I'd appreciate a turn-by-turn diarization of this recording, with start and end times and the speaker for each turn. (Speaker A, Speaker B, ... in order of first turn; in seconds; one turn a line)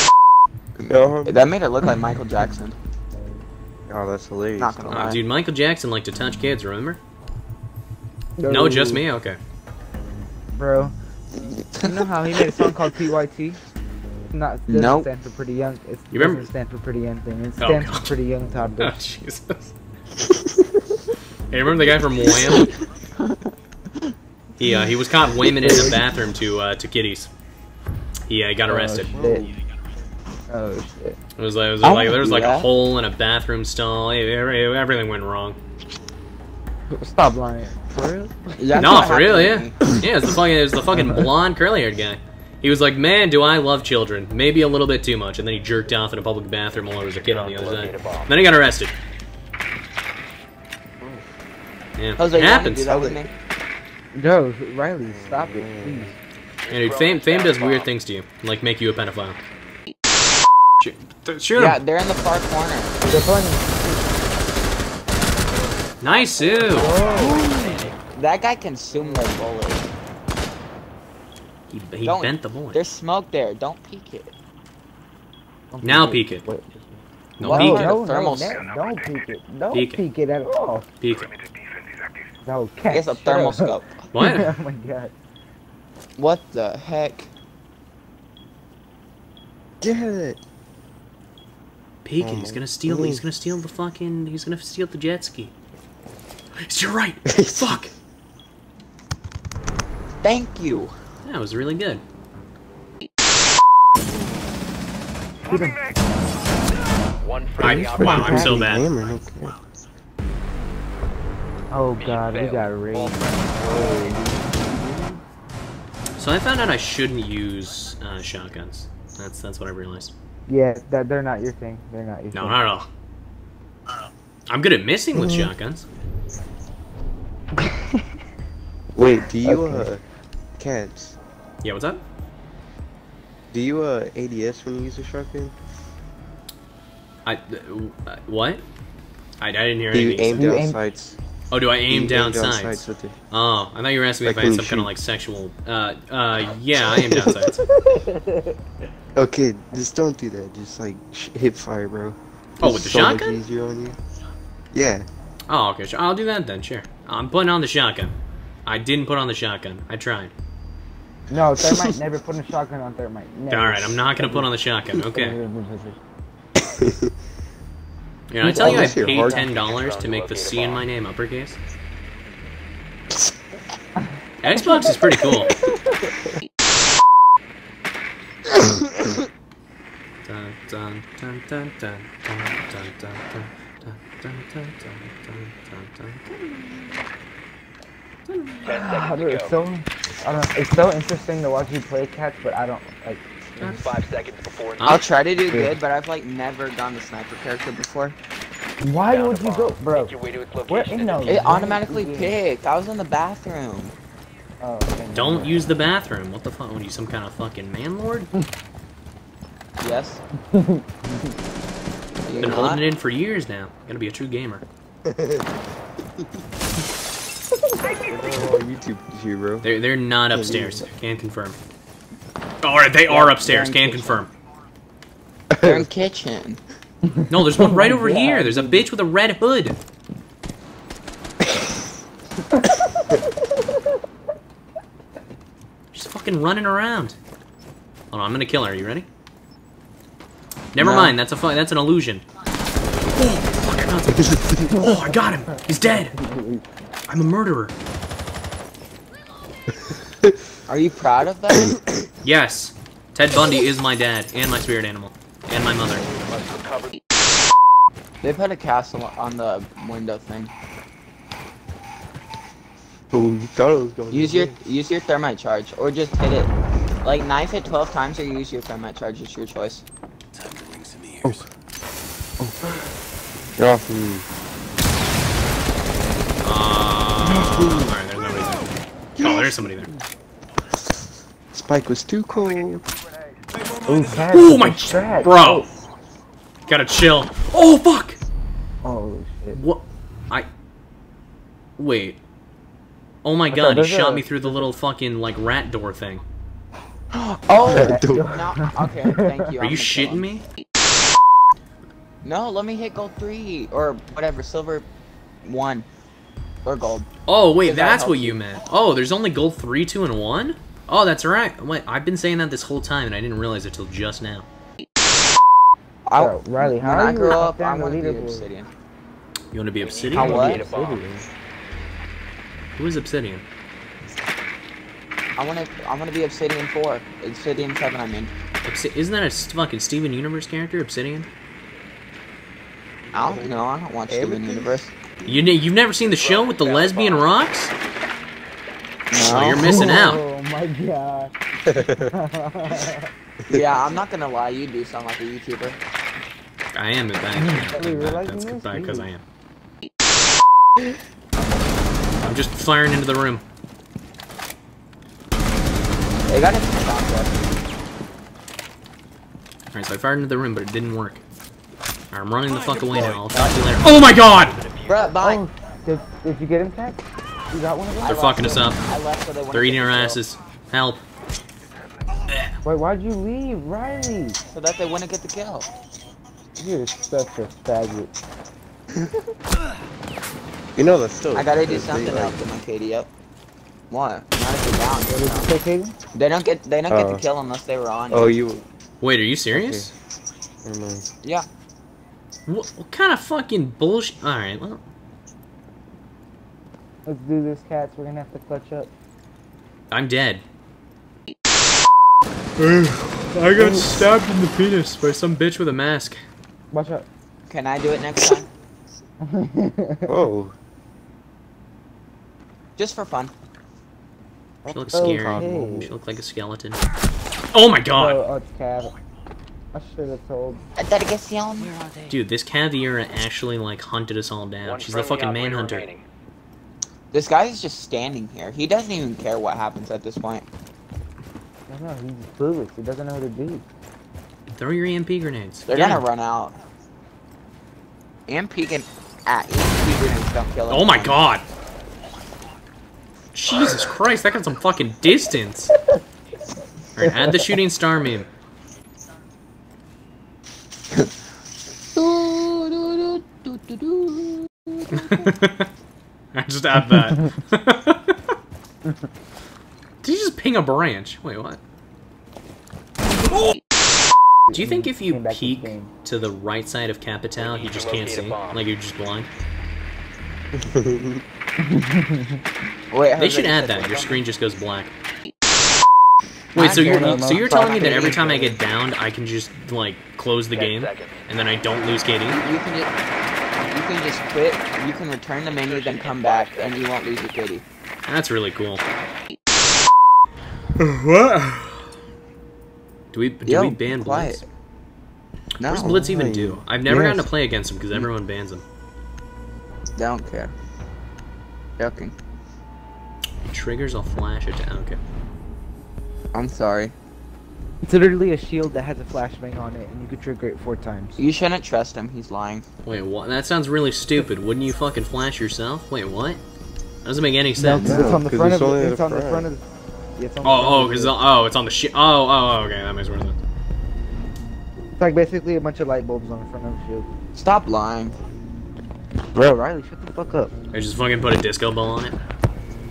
Speaker A: 0.8-2.8
Speaker B: 0.9-1.5
Speaker B: 3.9-5.1
Speaker A: 4.6-5.2
Speaker C: 4.9-7.0
Speaker D: 8.4-9.0
Speaker C: 8.5-9.4
Speaker D: 10.5-10.9
Speaker A: 11.4-12.7
Speaker D: 11.8-13.6
Speaker D: 14.3-19.0
Speaker A: 14.7-15.1
Speaker C: 16.1-16.5
Speaker C: 17.6-18.1
Speaker C: 18.8-19.7
Speaker C: 21.5-22.7
Speaker A: 22.3-22.7
Speaker C: 24.6-27.3
Speaker C: 28.3-29.1
Speaker D: 28.6-29.5
Speaker B: 29.1-29.5
Speaker D: 30.5-31.2
Speaker C: 31.4-35.6
Speaker A: 31.8-32.7
Speaker D: 36.9-39.1
Speaker A: 38.6-39.8
Speaker C: 38.7-48.9
Speaker E: 47.1-48.4
Speaker B: 51.0-51.3
Speaker C: 52.0-52.9
Speaker A: 52.2-53.3
Speaker B: 52.9-53.2
Speaker D: 54.1-56.2
Speaker B: 55.0-56.1
Speaker E: 56.7-57.9
Speaker C: 56.7-59.5
Speaker C: 60.8-61.8
Speaker A: 61.5-63.0
Speaker D: 63.0-64.2
Speaker C: 66.0-66.9
Speaker E: 66.0-68.0
Speaker D: 66.7-67.4
Speaker A: 67.2-69.9
Speaker D: 68.9-69.3
Speaker C: 71.7-72.8
Speaker A: 72.0-74.3
Speaker D: 75.7-76.8
Speaker C: 75.8-76.4
Speaker C: 77.4-78.0
Speaker A: 77.4-78.7
Speaker D: 77.4-80.9
Speaker C: 79.7-80.0
Speaker C: 81.0-81.3
Speaker D: 82.4-85.1
Speaker A: 82.9-84.0
Speaker C: 84.1-84.5
Speaker A: 86.2-87.3
Speaker B: 89.8-90.4
Speaker C: 92.0-95.5
Speaker B: 92.2-93.2
Speaker C: 96.6-97.9
Speaker B: 97.3-97.8
Speaker A: 100.2-100.9
Speaker C: 101.2-102.0
Speaker D: 105.5-105.8
Speaker E: 107.2-108.6
Speaker C: 107.6-108.9
Speaker B: 107.7-109.6
Speaker D: 108.0-108.6
Speaker D: 111.7-113.2
Speaker E: 112.0-114.1
Speaker D: 113.7-114.1
Speaker B: 113.7-114.2
Speaker C: 116.2-120.1
Speaker D: 120.5-122.6
Speaker C: 122.3-122.9
Speaker C: 124.5-125.9
Speaker B: 125.1-125.5
Speaker B: 128.9-130.0
Speaker D: 129.4-129.9
Speaker B: 130.6-131.2
Speaker C: 131.6-132.0
Speaker B: 133.5-135.5
Speaker C: 137.2-138.6
Speaker C: 139.4-140.4
Speaker B: 139.9-141.2
Speaker D: 140.3-140.8
Speaker C: 141.5-147.6
Speaker B: 141.9-143.2
Speaker B: 144.2-144.9
Speaker B: 147.0-147.5
Speaker D: 147.8-148.6
Speaker B: 149.2-154.0
Speaker C: 152.6-153.4
Speaker B: 154.7-155.1
Speaker C: 155.5-158.1
Speaker C: 158.7-160.3
Speaker D: 161.3-164.5
Speaker B: 161.6-161.9
Speaker C: 163.5-165.4
Speaker D: 165.1-166.0
Speaker B: 166.7-167.1
Speaker C: 168.3-171.6
Speaker D: 168.4-169.4
Speaker B: 168.4-169.5
Speaker E: 169.5-170.8
Speaker C: 174.4-175.5
Speaker C: 180.2-186.9
Speaker C: 188.3-188.6
Speaker E: 188.6-189.5
Speaker D: 188.7-193.8
Speaker E: 193.7-195.1
Speaker A: 194.8-198.2
Speaker D: 195.5-195.8
Speaker D: 198.8-200.1
Speaker E: 199.0-201.6
Speaker D: 200.7-202.3
Speaker A: 201.2-203.9
Speaker D: 204.6-205.6
Speaker C: 205.1-208.3
Speaker A: 209.8-210.2
Speaker D: 210.5-211.3
Speaker A: 212.2-212.8
Speaker C: 212.4-214.6
Speaker B: 215.0-215.5
Speaker B: 218.0-219.7
Speaker C: 219.6-221.6
Speaker B: 220.3-220.9
Speaker C: 222.6-224.3
Speaker D: 223.1-224.2
Speaker B: 225.5-225.9
Speaker A: 225.6-226.6
Speaker D: 227.1-228.8
Speaker C: 227.3-229.8
Speaker C: 235.9-237.2
Speaker C: 238.1-239.1
Speaker C: 240.7-242.2
Speaker A: 240.8-241.1
Speaker C: 243.2-246.1
Speaker B: 244.2-244.4
Speaker D: 244.6-246.6
Speaker C: 247.1-247.7
Speaker A: 250.7-251.8
Speaker B: 251.6-252.0
Speaker C: 252.2-256.1
Speaker E: 256.1-256.9
Speaker A: 258.2-260.5
Speaker B: 263.1-264.6
Speaker A: 264.1-266.5
Speaker A: 267.0-269.8
Speaker E: 270.3-271.4
Speaker B: 272.4-272.8
Speaker B: 273.6-274.2
Speaker C: 276.4-279.9
Speaker B: 277.2-277.9
Speaker B: 279.2-279.6
Speaker B: 281.5-282.8
Speaker D: 283.8-285.6
Speaker C: 284.2-285.7
Speaker C: 286.7-288.2
Speaker D: 288.8-289.6
Speaker C: 289.5-290.5
Speaker C: 291.8-292.2
Speaker C: 293.2-296.2
Speaker D: 293.5-294.7
Speaker D: 297.2-299.4
Speaker A: 297.4-300.4
Speaker B: 297.7-298.4
Speaker C: 299.6-300.4
Speaker A: 302.2-304.9
Speaker A: 305.4-305.9
Speaker A: 306.6-307.1
Speaker C: 307.2-314.4
Speaker A: 307.6-308.4
Speaker A: 316.1-318.7
Speaker D: 316.2-318.5
Speaker C: 319.5-320.6
Speaker E: 319.8-321.1
Speaker A: 320.1-320.6
Speaker D: 320.1-321.2
Speaker C: 322.8-323.4
Speaker A: 325.4-328.3
Speaker C: 328.6-331.3
Speaker B: 333.1-335.4
Speaker A: 333.1-334.9
Speaker C: 335.2-337.7
Speaker E: 336.0-337.3
Speaker A: 339.1-340.0
Speaker C: 339.2-340.2
Speaker D: 339.6-343.1
Speaker B: 341.7-342.1
Speaker A: 343.5-345.8
Speaker C: 346.7-349.2
Speaker D: 347.4-349.1
Speaker C: 352.2-353.4
Speaker A: 356.3-357.4
Speaker C: 359.7-361.2
Speaker C: 362.1-364.6
Speaker E: 362.6-363.2
Speaker D: 362.9-363.7
Speaker E: 364.0-365.2
Speaker A: 364.9-365.4
Speaker D: 365.2-368.7
Speaker A: 368.0-370.2
Speaker C: 368.1-368.8
Speaker C: 369.5-371.0
Speaker D: 372.6-374.4
Speaker A: 374.5-375.7
Speaker D: 376.6-378.1
Speaker B: 380.8-382.4
Speaker A: 381.3-383.1
Speaker A: 383.9-385.5
Speaker D: 385.1-385.9
Speaker A: 386.1-388.4
Speaker B: 386.9-387.2
Speaker B: 388.1-388.6
Speaker C: 389.0-389.9
Speaker B: 389.5-389.9
Speaker B: 390.6-391.1
Speaker C: 392.4-394.8
Speaker D: 397.0-398.9
Speaker C: 399.9-400.4
Speaker C: 402.6-406.2
Speaker D: 406.7-407.1
Speaker A: 407.5-408.5
Speaker D: 409.2-410.1
Speaker B: 410.1-410.5
Speaker A: 412.8-413.3
Speaker D: 414.6-415.9
Speaker C: 414.7-416.8
Speaker B: 414.9-415.9
Speaker C: 417.5-418.2
Speaker D: 417.9-418.9
Speaker D: 419.7-420.6
Speaker A: 420.8-421.7
Speaker E: 421.6-422.1
Speaker C: 422.1-425.9
Speaker E: 424.6-426.0
Speaker A: 427.1-430.4
Speaker D: 431.7-433.6
Speaker C: 434.5-436.0
Speaker A: 435.7-436.6
Speaker A: 438.3-441.2
Speaker C: 440.7-441.4
Speaker C: 443.3-445.7
Speaker C: 446.9-448.3
Speaker A: 451.9-455.2
Speaker C: 454.9-455.7
Speaker C: 456.3-458.3
Speaker C: 460.0-461.6
Speaker D: 464.5-465.9
Speaker C: 464.5-469.3
Speaker E: 467.4-468.6
Speaker B: 470.5-471.2
Speaker D: 471.6-472.4
Speaker A: 472.9-474.2
Speaker C: 473.1-474.9
Speaker D: 476.5-478.6
Speaker C: 476.5-482.4
Speaker A: 476.6-478.5
Speaker E: 480.5-481.2
Speaker A: 482.3-482.9
Speaker A: 483.7-487.6
Speaker E: 485.4-487.2
Speaker C: 488.1-488.8
Speaker C: 490.8-491.8
Speaker C: 493.1-494.4
Speaker A: 493.4-494.4
Speaker A: 495.6-496.0
Speaker C: 495.6-498.6
Speaker B: 495.7-496.6
Speaker D: 496.9-497.2
Speaker A: 500.0-500.5
Speaker A: 501.8-502.1
Speaker C: 503.4-505.0
Speaker A: 506.3-506.9
Speaker D: 507.8-511.1
Speaker A: 511.2-512.6
Speaker C: 512.8-516.4
Speaker C: 517.0-518.0
Speaker D: 517.5-519.6
Speaker B: 517.8-519.5
Speaker D: 520.2-521.1
Speaker C: 520.4-523.4
Speaker D: 525.0-527.1
Speaker A: 527.3-528.2
Speaker D: 529.3-530.5
Speaker C: 530.7-532.1